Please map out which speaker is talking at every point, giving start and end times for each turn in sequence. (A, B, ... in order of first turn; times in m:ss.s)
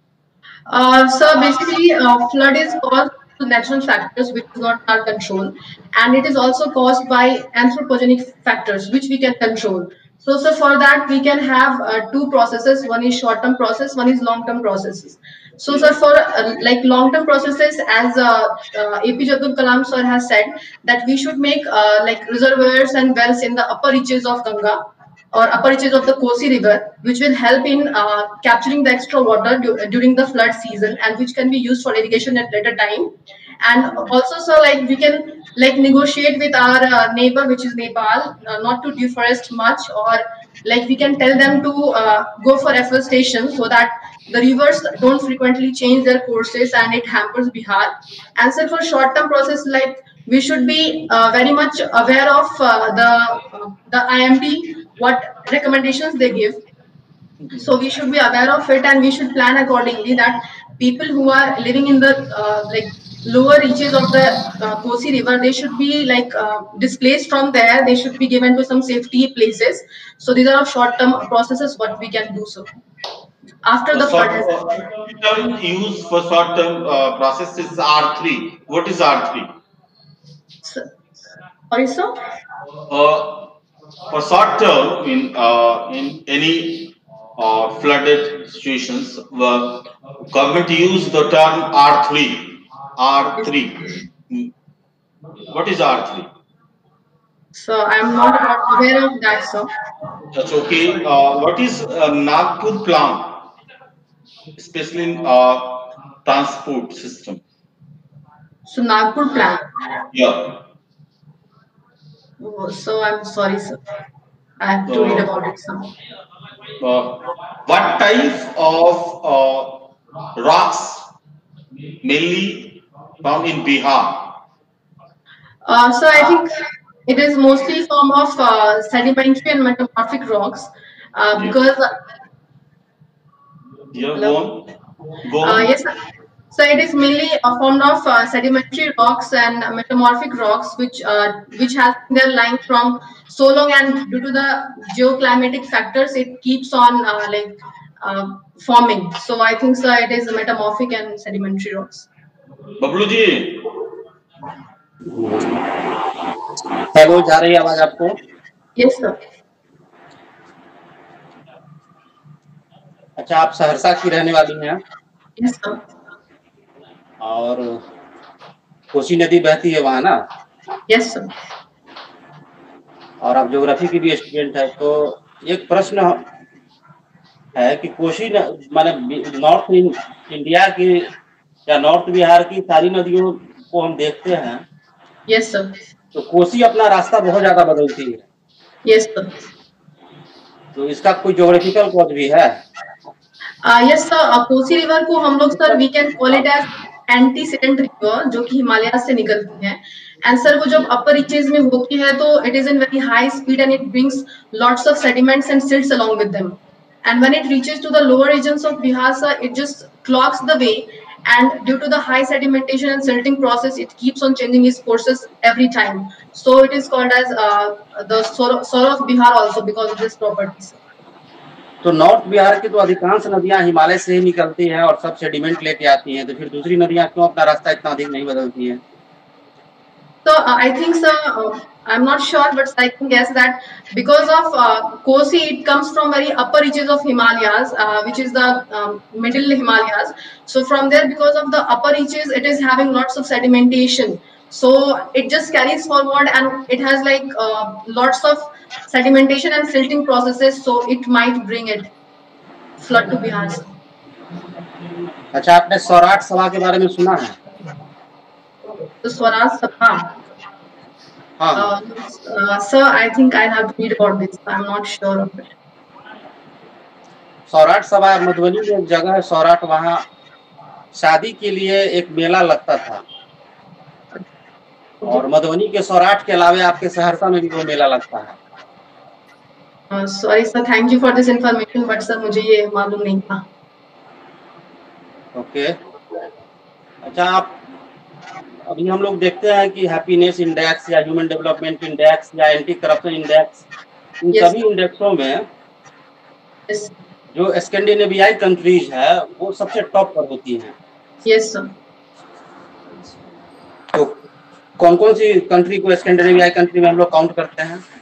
0:00.7-0:56.6 A
0:15.7-0:16.0 B
0:57.6-1:12.8 A
1:13.6-1:14.8 A
1:13.9-1:19.6 B
1:21.7-1:22.1 A
1:22.9-1:23.5 B
1:24.1-1:34.5 B
1:33.4-1:34.0 A
1:35.5-1:36.3 B
1:37.5-1:39.7 A
1:40.3-1:43.5 B
1:44.6-1:47.4 B
1:48.7-1:49.7 A
1:50.1-1:50.6 B
1:52.4-1:53.8 A
1:54.6-1:55.9 A
1:54.9-1:55.3 B
1:56.8-2:01.1 B
2:02.0-2:04.4 B
2:05.6-2:06.5 A
2:07.1-2:11.9 A
2:13.9-2:14.7 B
2:15.3-2:15.7 B
2:15.4-2:15.9 A
2:16.5-2:32.1 A
2:32.8-2:33.7 B
2:35.1-2:35.6 C
2:36.9-2:38.2 C
2:38.8-2:39.2 A
2:43.2-2:44.8 C
2:45.4-2:45.8 A
2:47.2-2:47.8 C
2:48.9-2:50.2 C
2:50.9-2:51.3 A
2:53.2-2:56.2 C
2:57.6-3:01.1 C
3:01.7-3:04.6 C
3:05.3-3:05.8 A
3:06.1-3:08.2 C
3:08.8-3:09.3 A
3:10.7-3:12.6 C
3:13.6-3:40.8 A
3:41.8-3:48.8 C
3:50.2-4:11.9 A
4:12.8-4:13.7 A
4:15.3-4:17.4 C
4:19.0-4:20.2 A
4:21.4-4:21.7 C
4:21.6-4:25.5 A
4:27.5-4:30.0 C
4:31.0-4:33.0 C
4:35.0-4:38.4 C
4:39.9-4:43.4 A
4:45.4-4:45.7 C
4:47.0-4:47.6 C
4:48.7-4:53.6 C
4:54.2-4:55.5 C
4:57.3-5:00.8 C
5:01.2-5:01.7 A
5:04.8-5:07.8 C